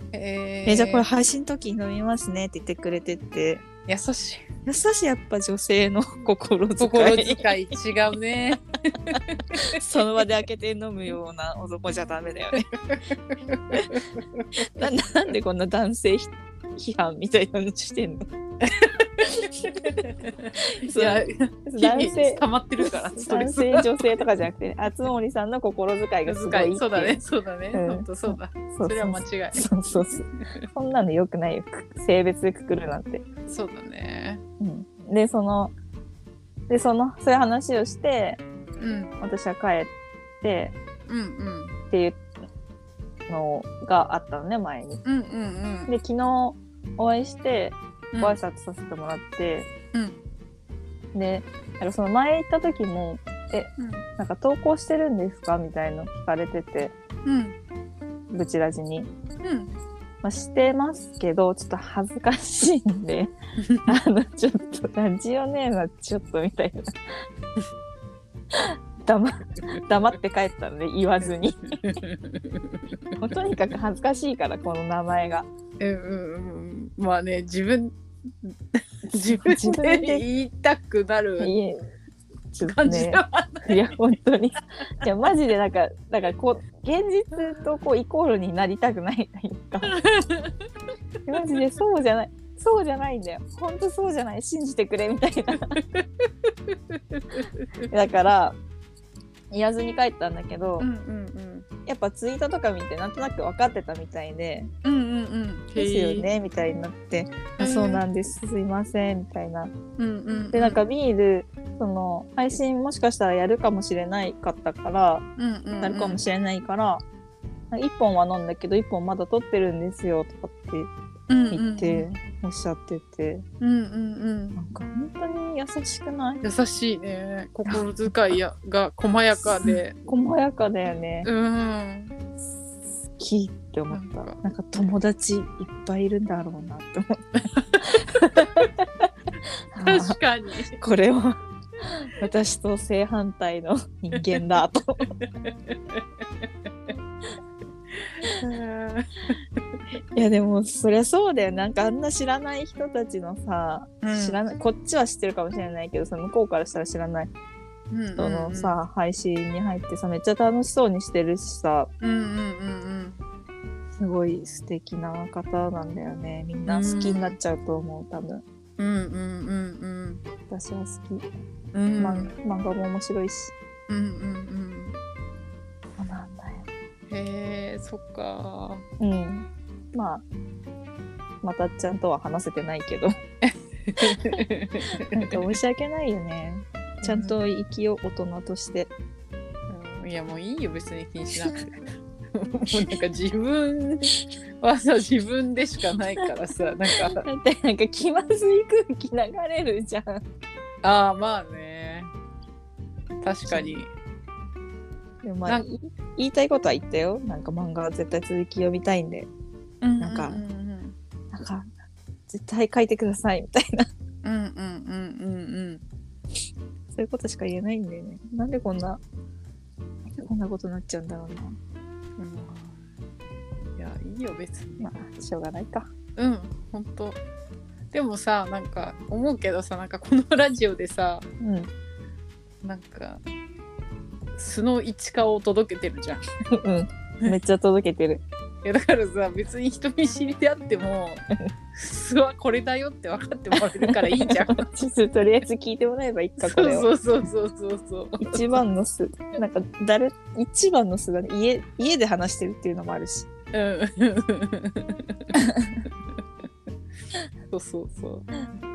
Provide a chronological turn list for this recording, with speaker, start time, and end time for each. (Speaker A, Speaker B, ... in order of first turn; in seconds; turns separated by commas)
Speaker A: 0.1-1.1, Speaker B: 0.7-3.7, Speaker A: 3.8-4.5, Speaker B: 4.6-7.5, Speaker A: 6.8-10.2, Speaker B: 9.7-12.7, Speaker A: 12.5-14.8, Speaker B: 14.6-18.2, Speaker A: 18.6-24.2, Speaker B: 20.7-27.2, Speaker A: 26.3-29.6, Speaker B: 27.7-33.3, Speaker A: 33.5-34.4, Speaker B: 34.6-35.7, Speaker B: 36.7-38.4, Speaker A: 38.8-39.1, Speaker B: 39.2-40.8, Speaker A: 41.1-41.8, Speaker B: 41.9-42.2, Speaker B: 43.3-45.0, Speaker A: 45.0-45.9, Speaker B: 45.9-49.7, Speaker A: 48.1-48.4, Speaker A: 49.9-50.2, Speaker B: 51.1-56.9, Speaker A: 53.8-54.1, Speaker A: 57.2-57.6, Speaker B: 58.3-59.1, Speaker A: 59.4-59.7, Speaker B: 60.2-63.3, Speaker A: 63.6-63.9, Speaker B: 63.9-67.0, Speaker B: 68.5-71.7, Speaker A: 71.7-73.2, Speaker B: 73.2-75.5, Speaker A: 75.8-81.5, Speaker B: 79.0-80.3, Speaker B: 81.4-81.9, Speaker B: 82.5-90.0, Speaker A: 82.6-84.0, Speaker A: 89.8-90.7, Speaker A: 91.3-91.7, Speaker B: 91.3-95.8, Speaker A: 95.7-97.8, Speaker B: 97.8-98.6, Speaker B: 99.5-100.9, Speaker A: 100.8-101.7, Speaker B: 101.8-104.7, Speaker A: 104.8-106.3, Speaker B: 105.8-109.7, Speaker A: 107.5-108.0, Speaker A: 110.0-110.8, Speaker B: 110.5-115.2, Speaker A: 115.3-116.2, Speaker B: 115.8-117.0, Speaker B: 117.7-120.9, Speaker A: 121.3-122.0, Speaker B: 121.5-123.5, Speaker A: 123.6-124.5, Speaker B: 124.5-126.4, Speaker A: 126.4-130.0, Speaker B: 127.7-128.3, Speaker B: 129.4-131.3, Speaker A: 131.2-132.1, Speaker B: 133.1-139.1, Speaker A: 133.9-134.4, Speaker A: 137.3-138.7, Speaker B: 139.7-140.2, Speaker A: 139.8-140.7, Speaker B: 140.7-145.1, Speaker A: 144.1-144.5, Speaker A: 145.1-146.0, Speaker A: 147.9-149.4, Speaker B: 150.1-157.3, Speaker A: 154.0-154.4, Speaker A: 157.9-158.8, Speaker B: 158.2-161.9, Speaker A: 162.0-163.2, Speaker B: 163.9-168.4, Speaker A: 166.7-167.4, Speaker A: 168.8-170.2, Speaker B: 170.4-171.3, Speaker A: 171.7-172.4, Speaker B: 172.0-173.5, Speaker A: 173.9-175.0, Speaker B: 176.0-176.7, Speaker A: 177.1-178.8, Speaker B: 179.0-180.2, Speaker B: 181.4-183.2, Speaker A: 183.4-185.6, Speaker B: 185.1-188.9, Speaker A: 187.0-187.4, Speaker A: 189.7-197.2, Speaker B: 192.7-192.9, Speaker B: 196.9-200.2, Speaker A: 200.8-202.1, Speaker A: 203.2-203.9, Speaker B: 203.4-203.8, Speaker B: 205.2-209.3, Speaker A: 209.8-210.9, Speaker B: 210.0-210.4, Speaker B: 211.3-211.7, Speaker B: 212.3-213.9, Speaker A: 214.2-215.8, Speaker B: 216.9-219.0, Speaker B: 220.1-221.6, Speaker A: 222.2-222.8, Speaker A: 223.8-224.9, Speaker B: 224.8-225.9, Speaker A: 226.2-227.2, Speaker A: 227.9-231.3, Speaker B: 231.4-231.7, Speaker A: 232.6-233.2, Speaker A: 234.3-236.2, Speaker B: 236.5-238.2, Speaker A: 238.6-244.7, Speaker B: 243.5-246.9, Speaker A: 246.4-248.7, Speaker B: 248.2-253.3, Speaker A: 253.5-255.2, Speaker B: 255.3-255.8, Speaker A: 257.5-258.3